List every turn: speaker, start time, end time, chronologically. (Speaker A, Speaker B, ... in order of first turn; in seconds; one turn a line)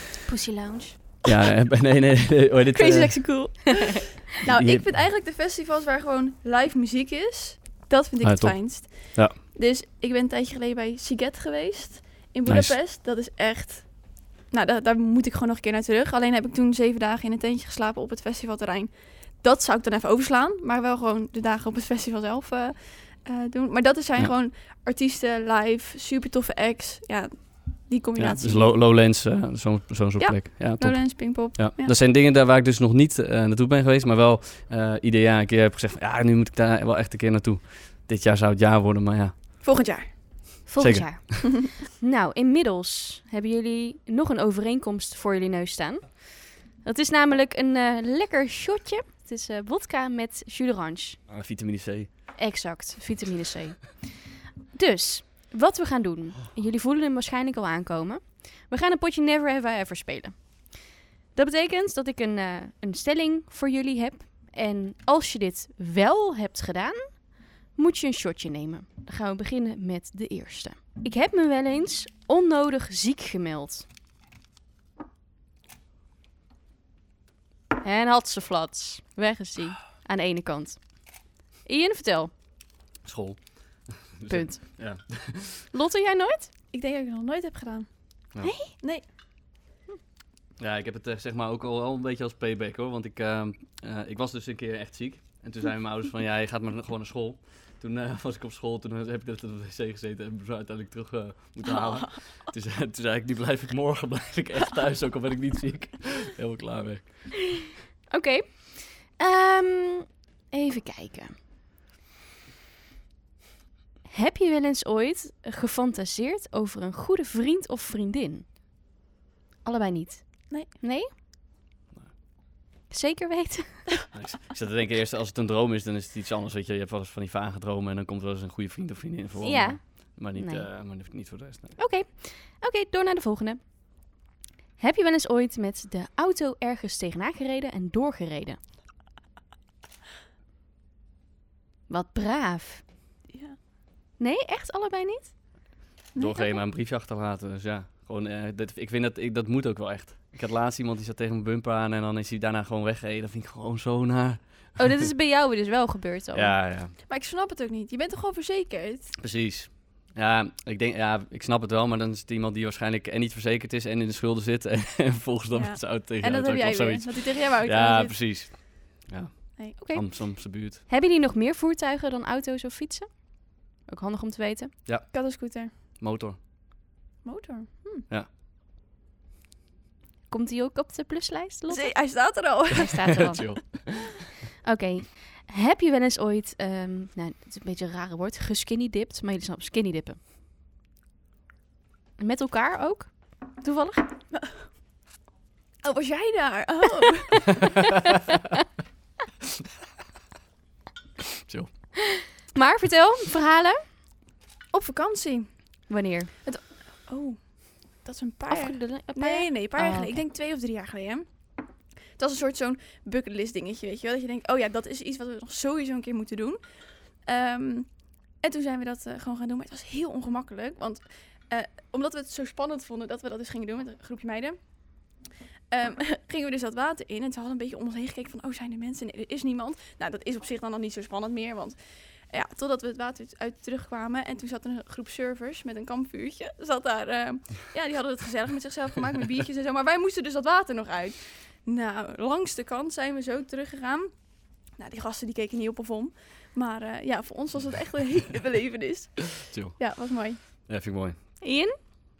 Speaker A: 0.3-1.0
Speaker B: 1.2-3.6
Speaker C: 2.7-28.7
Speaker B: 4.5-4.8
Speaker B: 8.2-9.3
Speaker B: 12.5-12.7
Speaker B: 28.2-39.3
Speaker C: 30.2-31.9
Speaker C: 39.6-40.6
Speaker A: 40.6-51.2
Speaker B: 40.8-41.4
Speaker B: 51.3-52.1
Speaker A: 52.4-54.2
Speaker A: 54.7-60.7
Speaker A: 61.3-73.8
Speaker A: 77.8-82.3
Speaker B: 83.0-85.7
Speaker A: 84.3-84.8
Speaker A: 85.7-86.5
Speaker C: 86.7-87.9
Speaker A: 88.4-88.7
Speaker C: 88.7-89.0
Speaker B: 90.6-107.6
Speaker A: 108.1-111.3
Speaker A: 114.1-118.5
Speaker A: 119.6-121.1
Speaker A: 122.9-123.9
Speaker B: 124.1-131.8
Speaker A: 129.4-130.7
Speaker A: 131.8-133.6
Speaker A: 134.8-138.6
Speaker A: 141.9-142.8
Speaker C: 143.3-143.6
Speaker A: 144.2-145.3
Speaker C: 146.1-146.5
Speaker B: 146.2-154.7
Speaker A: 154.8-156.5
Speaker B: 156.3-156.9
Speaker C: 157.1-159.1
Speaker B: 159.2-170.8
Speaker C: 165.5-168.1
Speaker A: 169.8-174.7
Speaker B: 174.8-175.1
Speaker C: 175.1-175.7
Speaker B: 176.0-176.4
Speaker C: 177.2-178.1
Speaker A: 180.3-182.1
Speaker C: 181.7-183.3
Speaker A: 182.7-183.7
Speaker B: 183.2-184.1
Speaker A: 184.6-190.2
Speaker A: 192.2-194.1
Speaker C: 195.8-197.5
Speaker B: 201.5-201.7
Speaker A: 202.1-203.8
Speaker C: 204.7-205.9
Speaker A: 205.9-206.3
Speaker C: 206.4-211.3
Speaker A: 208.5-210.2
Speaker C: 212.2-225.1
Speaker C: 225.7-231.8
Speaker C: 232.3-244.1
Speaker C: 244.7-250.4
Speaker B: 249.4-249.9
Speaker B: 250.7-251.4
Speaker A: 251.4-251.8